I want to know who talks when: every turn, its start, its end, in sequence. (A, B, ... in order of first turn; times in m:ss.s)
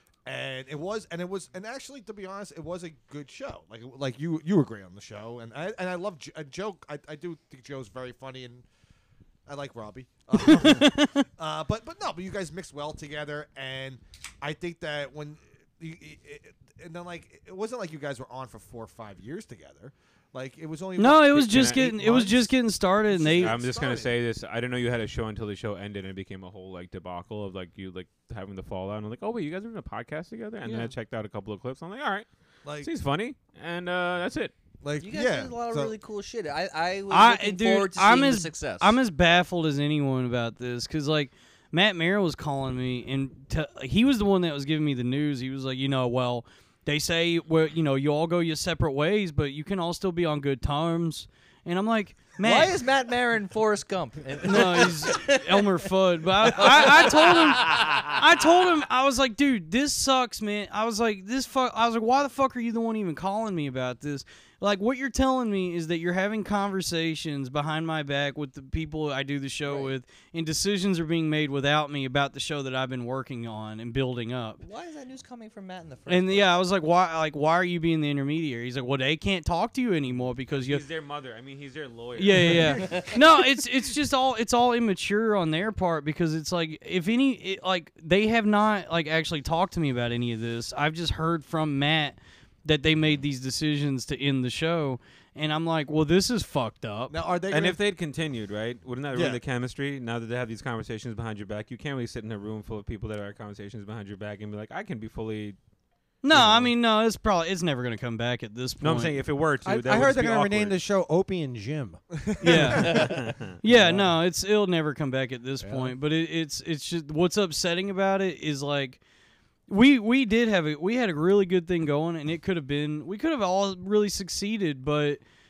0:00.3-0:08.6 A
0:09.5-0:22.6 A
0:10.3-0:11.2 B
0:21.0-0:23.6 B
0:21.4-0:21.8 C
0:23.1-0:24.1 A
0:23.4-0:32.3 C
0:32.6-0:32.9 A
0:32.8-0:34.5 C
0:34.8-0:35.9 A
0:35.0-0:39.0 D
0:37.1-0:52.8 B
0:52.4-0:55.8 D
0:54.4-1:14.6 B
0:56.4-0:58.2 D
1:09.6-1:10.0 D
1:14.6-1:16.5 D
1:16.1-1:20.8 B
1:20.6-1:22.8 C
1:22.2-1:37.1 B
1:37.1-1:37.8 A
1:37.5-1:45.6 C
1:39.1-1:39.4 A
1:46.2-1:49.2 B
1:46.3-1:46.7 E
1:48.8-1:50.8 C
1:49.6-1:53.0 E
1:52.3-1:53.0 A
1:52.4-1:59.0 B
1:52.8-1:53.2 D
1:52.9-1:53.5 C
1:53.6-1:54.2 E
1:55.6-1:56.0 E
1:59.7-2:05.2 B